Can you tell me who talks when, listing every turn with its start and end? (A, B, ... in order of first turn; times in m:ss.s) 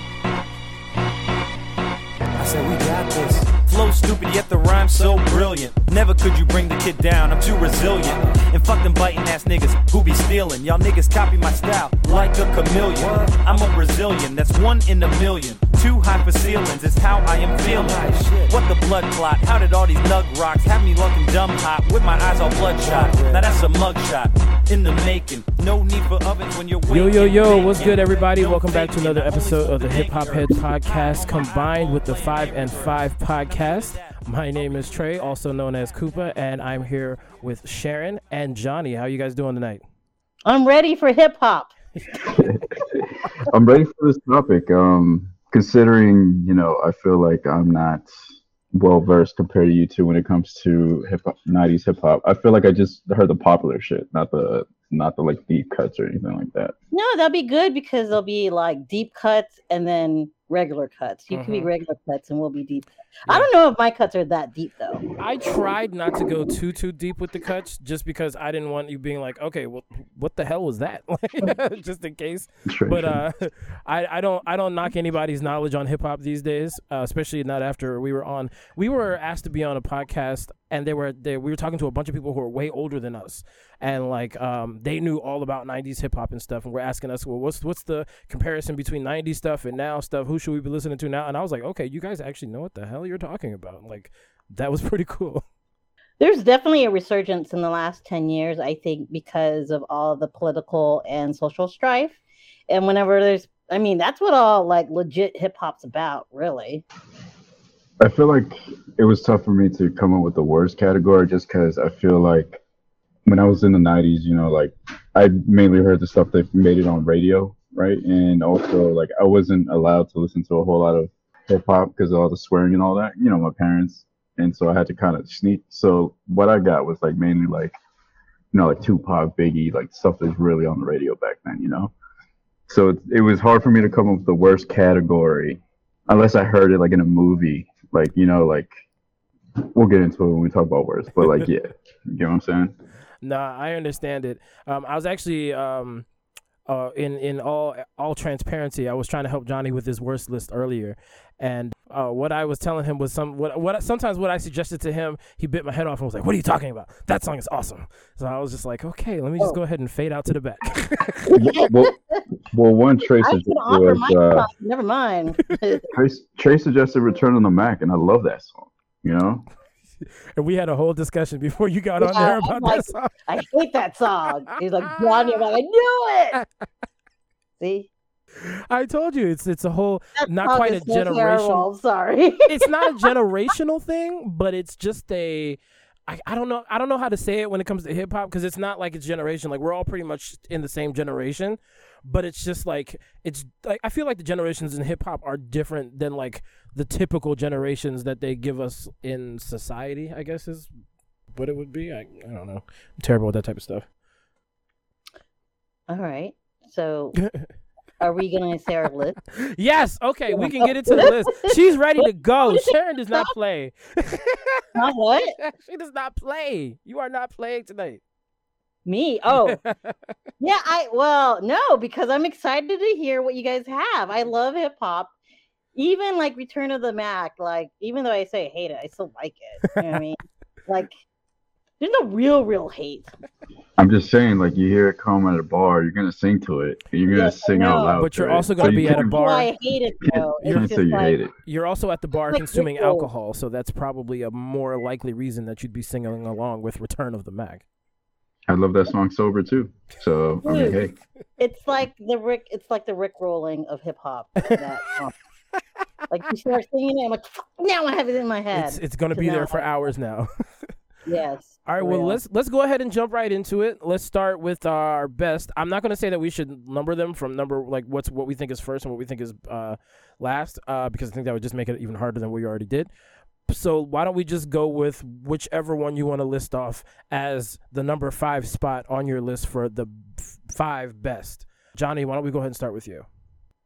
0:02.4-0:03.5 A
0:03.5-0:35.4 B
0:17.6-0:18.5 A
0:22.8-0:23.6 A
0:26.9-0:39.8 C
0:40.5-0:41.7 D
0:42.2-0:48.1 E
0:48.7-0:56.8 E
0:56.9-1:05.0 D
1:01.3-1:01.7 C
1:05.2-1:35.4 C
1:12.7-1:13.2 E
1:36.2-1:46.8 D
1:48.0-1:52.6 E
1:53.3-2:07.8 E
2:08.5-2:11.9 E
2:12.7-2:18.7 E
2:19.6-2:22.8 E
2:23.2-2:26.0 C
2:26.7-2:41.3 C
2:41.3-2:42.2 D
2:41.3-2:41.9 E
2:42.5-2:44.5 E
2:43.2-2:45.9 D
2:45.9-2:49.5 E
2:50.4-2:53.1 C
2:52.0-2:56.4 D
2:54.8-2:55.5 C
2:57.6-2:57.9 D
2:58.4-3:01.6 C
3:00.2-3:03.1 D
3:02.5-3:20.7 C
3:21.3-3:23.9 C
3:25.9-3:27.2 D
3:28.0-3:29.2 D
3:29.4-3:34.8 C
3:30.3-3:33.3 D
3:34.8-3:35.4 D
3:35.4-3:38.0 C
3:38.9-3:39.6 D
3:39.4-3:40.1 C
3:40.4-3:45.1 D
3:45.8-3:51.0 D
3:51.8-3:53.1 D
3:53.8-3:59.2 E
3:57.1-3:58.0 D
3:58.0-3:59.5 C
3:58.6-4:01.2 D
4:00.0-4:01.3 E
4:01.4-4:07.6 C
4:02.3-4:03.1 D
4:08.5-4:11.0 E
4:10.4-4:10.8 D
4:11.4-4:15.1 D
4:16.1-4:19.7 D
4:18.5-4:20.3 C
4:21.1-4:22.2 D
4:21.7-4:32.9 C
4:33.5-4:43.1 C